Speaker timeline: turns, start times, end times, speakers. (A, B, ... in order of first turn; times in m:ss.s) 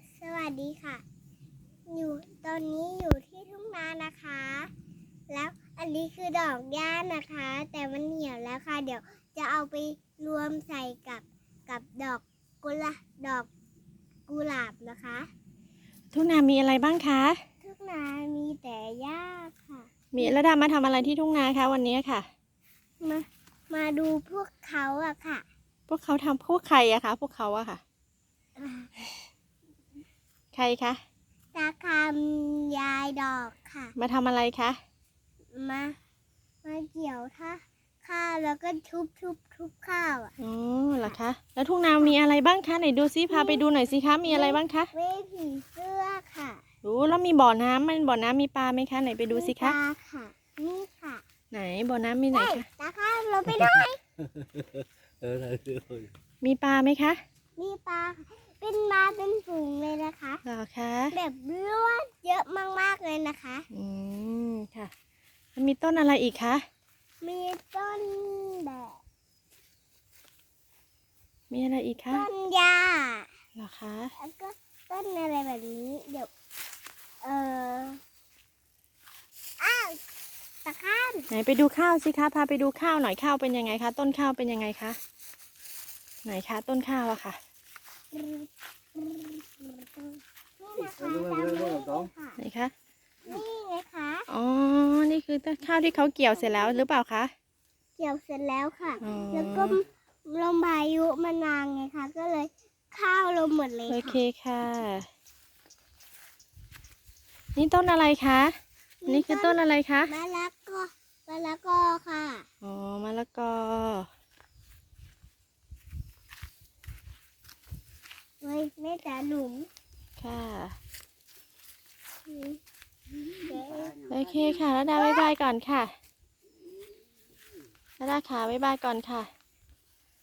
0:00.2-0:01.0 A
0:01.9-0:04.7 A
0:05.3-0:13.5 A
0:14.3-0:15.3 A
0:16.1-0:17.4 B
0:17.6-0:19.9 A
0:20.1-0:22.3 B
0:23.0-0:25.4 A
0:25.9-0:27.8 B
0:28.6-0:28.9 A
0:30.5-0:31.0 B
0:31.5-0:33.9 A
0:34.0-0:34.8 B
0:35.5-0:35.9 A
0:36.6-0:40.3 A
0:40.4-0:44.9 B
0:43.3-0:43.6 A
0:44.2-0:46.6 A
0:46.8-0:49.8 B
0:49.3-0:51.2 A
0:51.5-0:52.6 B
0:52.3-0:54.0 A
0:54.4-0:56.1 C
0:56.4-0:57.2 B
0:57.6-1:00.4 A
1:00.4-1:01.1 B
1:01.1-1:03.7 A
1:03.7-1:04.9 B
1:05.6-1:06.6 B
1:07.2-1:09.0 A
1:11.5-1:12.3 B
1:12.1-1:13.3 A
1:13.6-1:14.1 B
1:14.2-1:16.3 A
1:17.2-1:18.0 A
1:19.6-1:20.0 A
1:20.6-1:21.3 A
1:21.3-1:25.0 B
1:26.2-1:27.4 B
1:28.1-1:32.4 A
1:31.0-1:31.9 C
1:32.4-1:32.7 B
1:33.2-1:34.3 A
1:34.3-1:37.3 B
1:38.0-1:44.2 A
1:39.0-1:39.8 B
1:43.9-1:45.1 B
1:47.6-1:48.5 B
1:49.0-1:52.5 A
1:49.1-1:50.1 B
1:52.6-1:54.1 B
1:58.4-1:59.7 A
2:00.2-2:00.8 B
2:02.2-2:02.6 A
2:03.3-2:04.0 A
2:04.1-2:05.9 B
2:04.9-2:05.3 A
2:08.0-2:09.3 B